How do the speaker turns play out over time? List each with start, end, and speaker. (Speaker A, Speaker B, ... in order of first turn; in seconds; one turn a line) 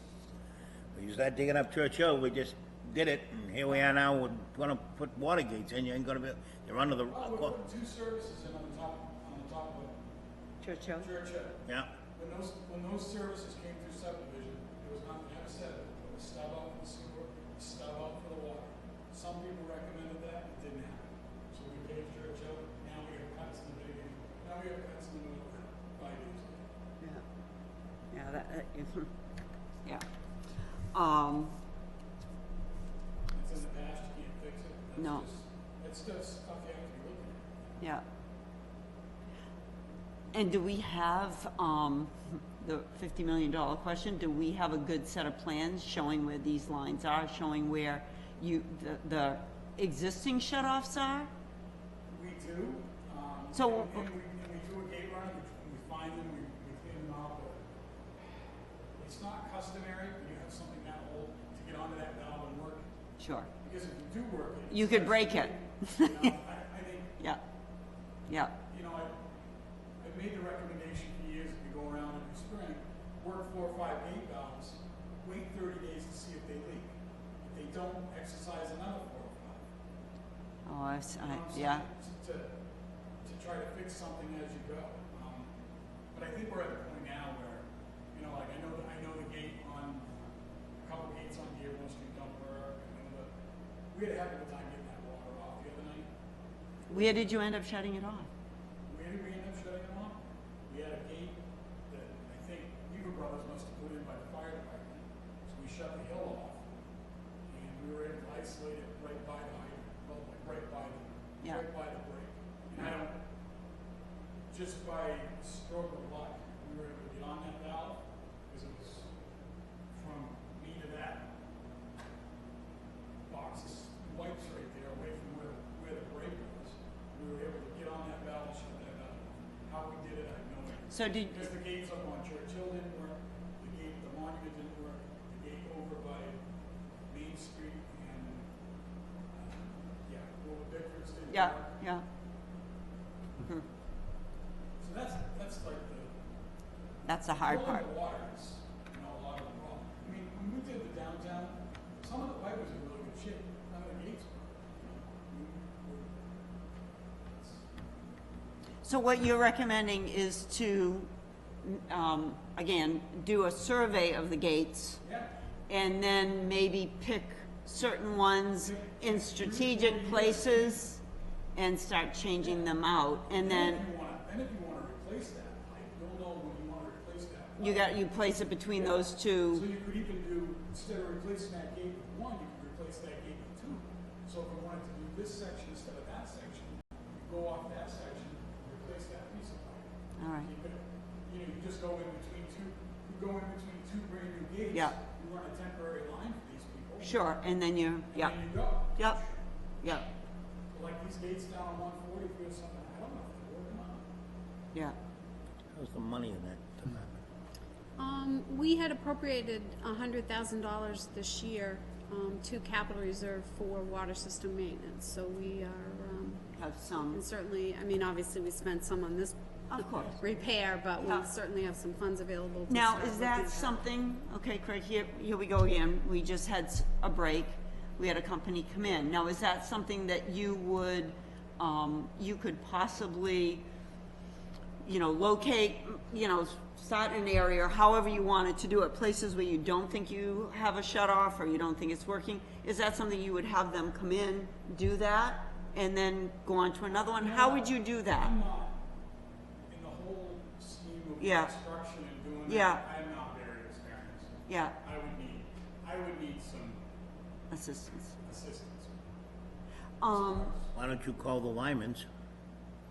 Speaker A: 0.9-7.5
Speaker B: 7.1-10.0
Speaker C: 10.6-11.1
Speaker B: 11.0-26.7
Speaker C: 28.1-29.1
Speaker C: 30.9-31.6
Speaker B: 33.3-37.7
Speaker C: 35.0-35.2
Speaker C: 40.3-51.3
Speaker B: 52.1-57.6
Speaker C: 53.5-54.1
Speaker B: 59.0-62.9
Speaker C: 63.2-63.5
Speaker B: 63.6-67.2
Speaker C: 64.7-66.3
Speaker C: 68.3-68.5
Speaker B: 68.7-69.2
Speaker B: 70.0-79.7
Speaker C: 80.7-81.9
Speaker B: 81.2-82.5
Speaker B: 83.2-85.5
Speaker B: 86.1-90.3
Speaker B: 90.8-93.3
Speaker B: 93.9-96.1
Speaker C: 96.9-98.3
Speaker B: 98.9-106.7
Speaker B: 107.5-113.2
Speaker B: 114.5-119.1
Speaker B: 119.9-121.3
Speaker B: 123.3-136.4
Speaker C: 130.9-131.5
Speaker B: 137.1-138.5
Speaker B: 139.3-141.8
Speaker C: 141.3-142.0
Speaker B: 144.8-146.1
Speaker C: 147.0-147.9
Speaker B: 147.3-156.2
Speaker B: 157.3-157.7
Speaker C: 158.8-161.1
Speaker C: 161.6-165.0
Speaker B: 165.0-165.3
Speaker C: 165.7-171.0
Speaker B: 168.6-170.9
Speaker C: 171.6-173.8
Speaker B: 173.3-178.1
Speaker C: 177.6-179.7
Speaker B: 178.7-189.9
Speaker C: 190.2-190.5
Speaker B: 190.4-197.2
Speaker C: 197.0-199.2
Speaker B: 198.1-199.3
Speaker C: 199.8-200.1
Speaker B: 200.7-204.1
Speaker A: 205.7-207.1
Speaker D: 208.0-223.8
Speaker C: 216.5-217.2
Speaker C: 219.7-220.2
Speaker C: 221.0-221.3
Speaker C: 222.7-233.7
Speaker C: 234.8-248.3
Speaker B: 247.1-248.8
Speaker B: 249.7-256.8
Speaker C: 251.2-251.5
Speaker C: 252.5-252.8
Speaker C: 254.5-254.8
Speaker C: 257.5-258.2
Speaker B: 258.2-258.9
Speaker C: 260.0-260.5
Speaker B: 260.1-260.7
Speaker A: 260.7-262.1